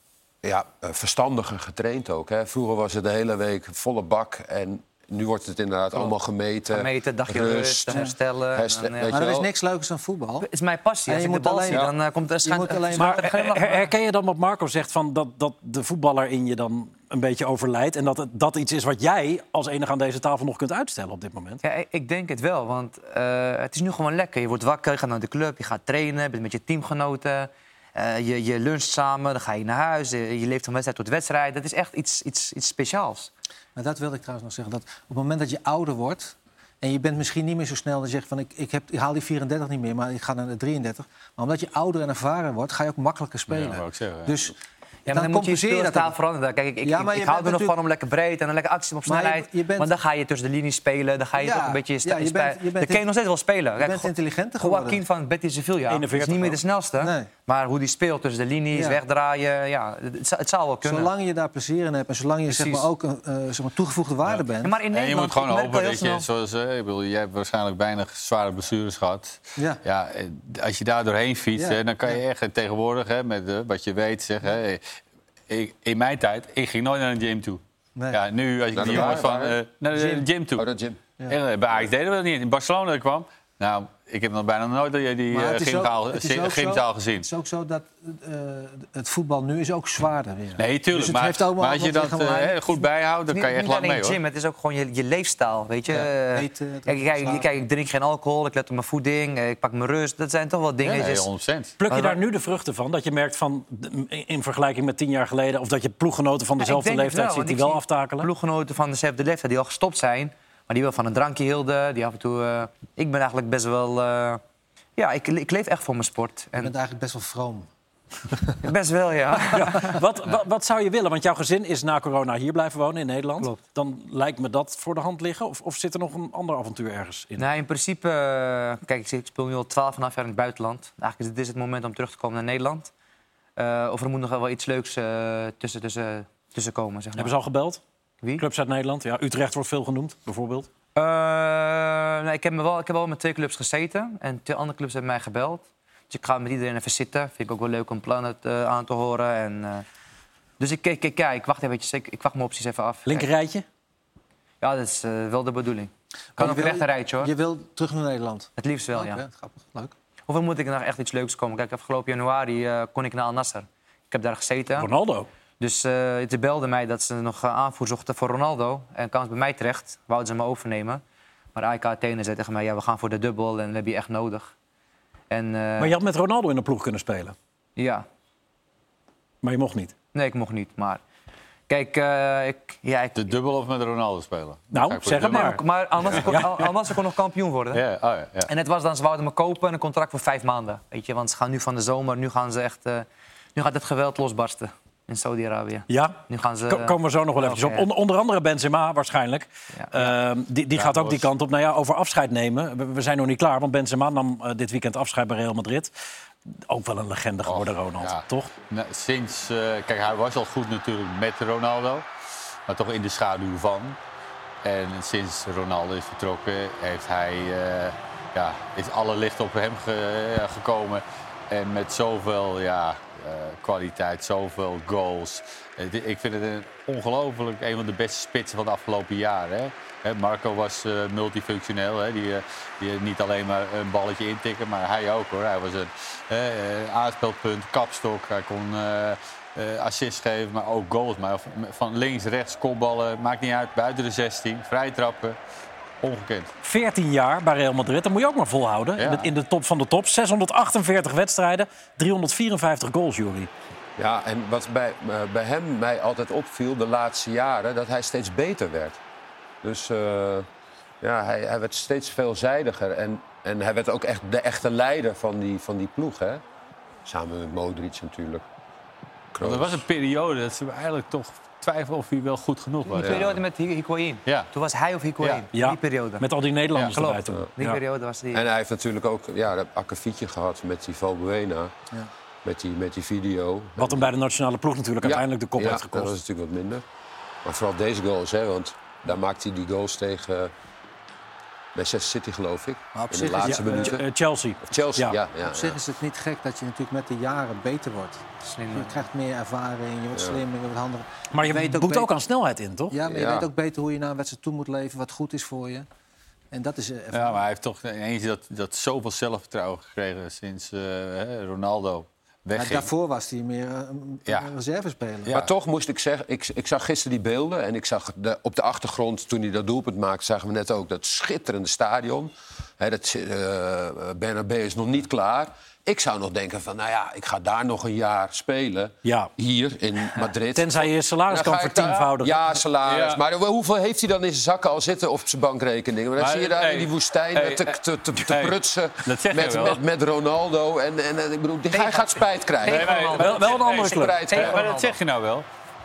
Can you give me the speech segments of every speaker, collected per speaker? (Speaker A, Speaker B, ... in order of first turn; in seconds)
Speaker A: 0.4-9.5, 78.7-79.6, 80.6-81.0, 254.0-259.0, 259.6-260.5, 261.0-266.4, 267.1-268.4, 269.3-269.8, 273.0-273.4, 278.3-281.7, 282.4-284.1, 285.0-286.8, 287.4-290.5, 291.8-294.1, 294.6-295.8, 300.1-300.4, 303.1-303.5, 315.3-344.6
Speaker B: 6.7-9.2, 10.4-13.9, 21.6-33.3, 45.1-61.1, 62.5-62.9, 64.6-66.3, 93.3-101.3, 101.9-102.2, 106.6-114.4, 115.0-116.7, 118.6-120.0, 127.4-132.9, 133.6-137.3, 141.0-149.8, 150.6-153.3, 154.6-157.3, 158.6-159.2, 160.3-164.9, 165.6-171.0, 171.6-174.5, 175.3-175.9, 177.8-178.1, 180.1-181.0, 181.7-183.4, 185.2-187.8, 188.5-197.9, 199.8-200.1, 272.9-276.2, 276.9-278.4, 298.4-299.0, 341.7-343.6, 344.3-345.0
Speaker C: 9.1-10.5, 11.1-13.3, 33.8-44.6, 45.1-46.2, 46.8-47.8, 49.0-49.9, 51.4-53.0, 53.8-55.0, 57.0-57.3, 58.7-59.0, 60.8-64.8, 71.6-72.2, 78.8-79.2, 79.9-80.2, 85.3-92.6, 95.9-97.5, 116.6-117.7, 118.2-118.6, 156.4-159.9, 292.9-294.0, 295.4-302.1, 302.9-305.9, 306.5-307.4, 312.6-315.3
Speaker D: 12.9-21.6, 55.9-56.6, 101.8-108.3, 119.5-127.4, 137.2-137.8, 138.4-140.7, 153.1-153.6, 164.8-165.3, 175.8-177.3, 179.4-179.9, 184.7-186.7, 195.9-205.9, 206.7-208.5, 246.6-253.5, 275.5-277.8, 283.8-286.1, 293.4-295.2, 301.3-303.0, 329.1-329.3, 330.6-332.4, 343.2-344.3
Speaker E: 43.5-44.4, 64.9-74.9, 75.5-80.7, 81.3-87.2, 90.6-94.2, 100.8-101.8, 183.2-186.4, 187.7-188.5, 200.8-201.3, 207.5-212.1, 212.7-214.0, 214.6-245.4, 246.0-246.5, 249.0-249.3, 269.4-273.4, 307.1-312.9, 332.9-333.2, 336.2-339.8, 342.6-345.5